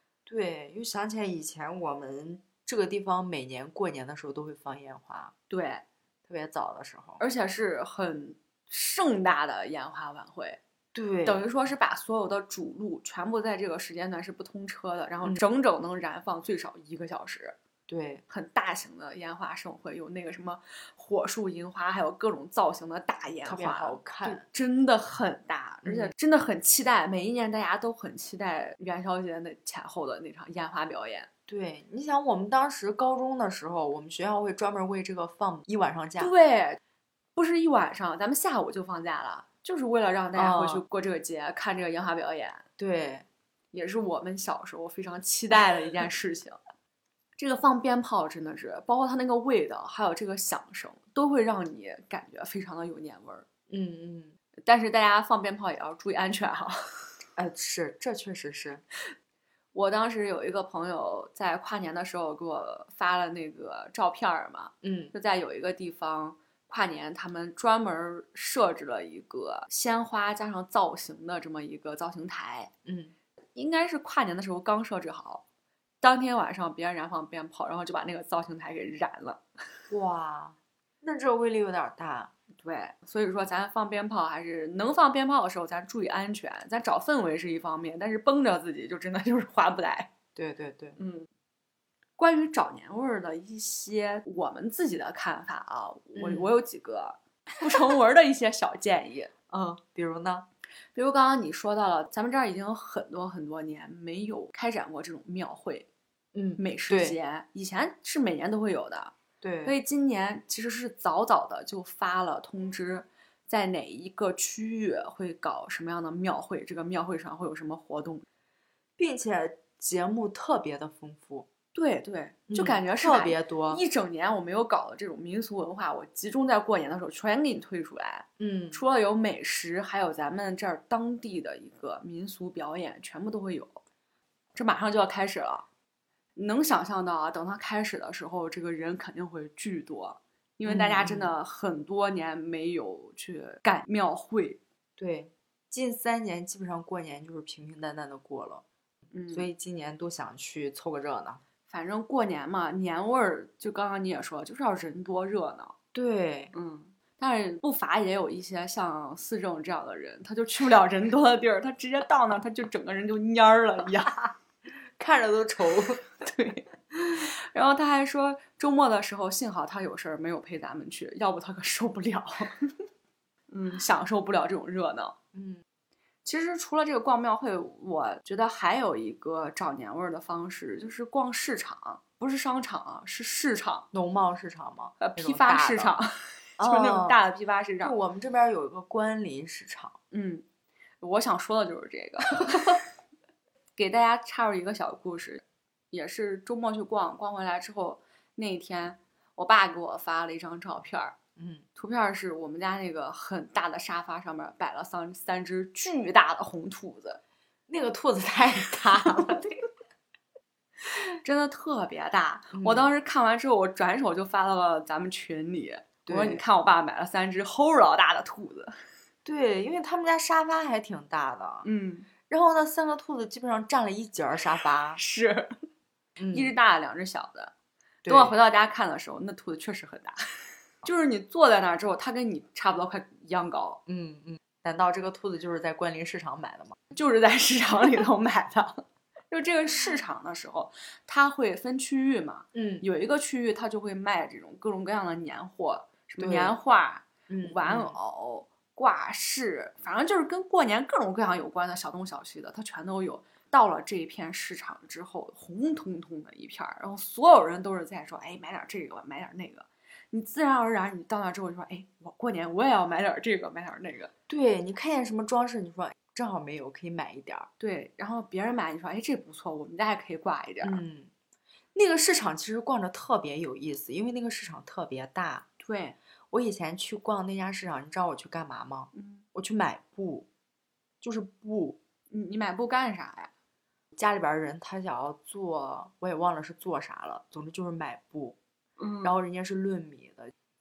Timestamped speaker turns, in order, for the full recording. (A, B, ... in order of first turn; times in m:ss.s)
0:00.2-0:05.3 A
0:05.5-0:05.8 B
0:06.3-0:07.2 A
0:07.2-0:10.6 B
0:10.9-0:11.4 A
0:11.2-0:17.6 B
0:17.9-0:18.2 A
0:18.3-0:31.3 B
0:23.4-0:24.4 A
0:25.8-0:26.1 A
0:31.5-0:36.3 A
0:36.2-0:36.8 B
0:37.4-0:42.6 B
0:40.3-0:40.8 A
0:42.8-0:43.2 A
0:43.7-0:46.6 B
0:47.4-0:53.4 B
0:53.7-0:54.3 A
0:54.6-0:56.8 B
0:57.4-0:58.8 A
0:59.7-1:12.7 B
1:04.8-1:05.1 A
1:12.8-1:13.1 A
1:13.5-1:15.4 B
1:16.0-1:19.4 B
1:19.9-1:22.3 A
1:22.6-1:30.1 B
1:30.4-1:31.0 A
1:31.0-1:31.3 B
1:32.2-1:39.3 B
1:36.2-1:36.5 A
1:39.5-1:40.4 A
1:40.9-1:45.9 B
1:46.3-1:47.2 A
1:46.6-1:49.1 B
1:49.4-1:49.8 A
1:49.6-1:58.2 B
1:59.0-2:01.5 A
2:01.7-2:13.8 B
2:02.5-2:03.8 A
2:08.4-2:08.8 A
2:14.5-2:15.6 B
2:16.4-2:24.6 B
2:20.6-2:21.3 A
2:25.0-2:28.6 A
2:29.1-2:29.5 B
2:29.3-2:31.4 A
2:31.7-2:35.7 B
2:35.9-2:36.5 A
2:36.5-2:44.3 B
2:45.0-2:46.0 A
2:46.2-2:52.7 B
2:46.9-2:47.2 A
2:53.5-2:55.2 B
2:55.3-2:55.6 A
2:56.2-3:03.9 B
3:03.9-3:05.9 A
3:05.0-3:07.9 B
3:06.6-3:07.2 A
3:07.8-3:10.0 A
3:10.1-3:10.4 B
3:11.0-3:12.8 B
3:13.8-3:21.2 B
3:21.4-3:21.6 A
3:21.8-3:27.2 B
3:27.7-3:29.6 A
3:31.2-3:38.7 B
3:32.5-3:32.9 A
3:36.0-3:36.4 A
3:39.2-3:41.6 A
3:41.6-3:42.1 B
3:42.3-3:45.0 A
3:44.9-3:45.5 B
3:46.2-3:46.5 A
3:46.3-3:47.5 B
3:48.0-3:48.3 A
3:48.0-3:50.3 B
3:50.8-3:53.8 B
3:53.9-3:56.8 A
3:56.9-4:24.1 B
4:02.5-4:02.8 A
4:06.2-4:06.5 A
4:07.3-4:07.9 A
4:24.3-4:27.5 A
4:27.6-4:30.8 B
4:30.6-4:31.1 A
4:31.7-4:35.5 A
4:35.6-4:36.0 B
4:36.3-4:40.3 A
4:38.9-4:39.2 B
4:41.0-4:41.8 A
4:42.1-4:43.3 B
4:43.9-4:48.4 A
4:48.8-4:49.2 B
4:49.0-4:50.3 A